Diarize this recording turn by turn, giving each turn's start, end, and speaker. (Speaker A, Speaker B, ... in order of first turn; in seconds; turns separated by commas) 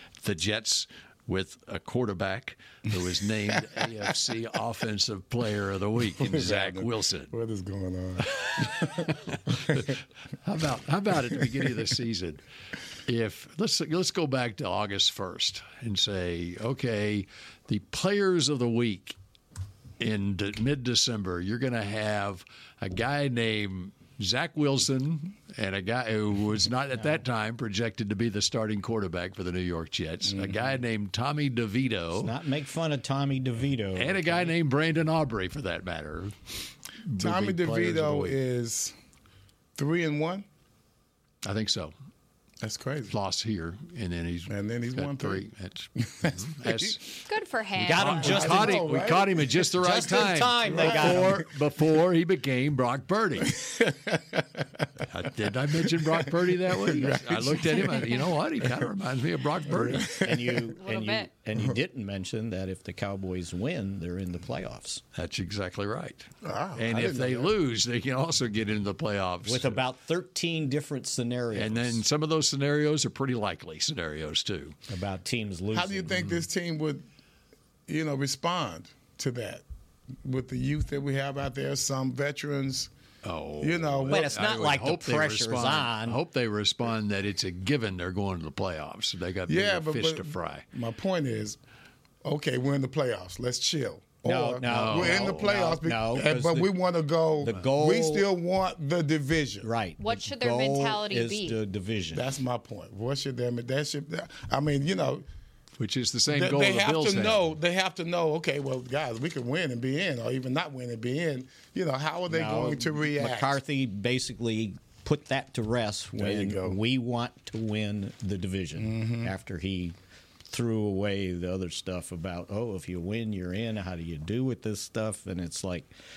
Speaker A: 0.2-7.3, Speaker B: 6.2-9.9, Speaker A: 8.2-12.4, Speaker A: 13.1-19.1, Speaker A: 20.0-32.3, Speaker B: 30.3-30.8, Speaker C: 32.1-34.5, Speaker A: 34.0-36.4, Speaker A: 37.1-38.4, Speaker B: 37.2-38.9, Speaker B: 39.8-40.5, Speaker A: 41.4-41.9, Speaker B: 42.6-43.1, Speaker A: 43.1-47.1, Speaker B: 44.5-45.5, Speaker B: 46.0-47.0, Speaker D: 47.3-48.8, Speaker C: 47.8-48.8, Speaker A: 47.8-53.6, Speaker B: 48.2-49.5, Speaker C: 49.8-51.4, Speaker B: 50.6-51.4, Speaker B: 53.4-58.9, Speaker A: 55.1-60.2, Speaker B: 59.7-60.7, Speaker C: 60.1-65.0, Speaker D: 60.7-61.3, Speaker A: 65.1-69.8, Speaker B: 66.4-67.5, Speaker C: 69.4-72.0, Speaker A: 71.5-74.8, Speaker C: 74.9-76.2, Speaker B: 75.7-77.0, Speaker B: 77.9-79.6, Speaker B: 80.2-82.9, Speaker A: 83.2-90.6, Speaker B: 83.6-84.3, Speaker C: 84.1-86.2, Speaker B: 89.5-91.6, Speaker B: 92.2-99.7, Speaker C: 94.2-96.7, Speaker A: 94.7-95.5, Speaker C: 97.4-98.3, Speaker C: 99.6-102.2, Speaker D: 100.0-101.6, Speaker B: 102.1-105.2, Speaker A: 105.8-107.4, Speaker B: 106.3-113.6, Speaker C: 112.3-119.9, Speaker B: 116.1-116.8, Speaker B: 118.8-119.3, Speaker C: 120.5-125.9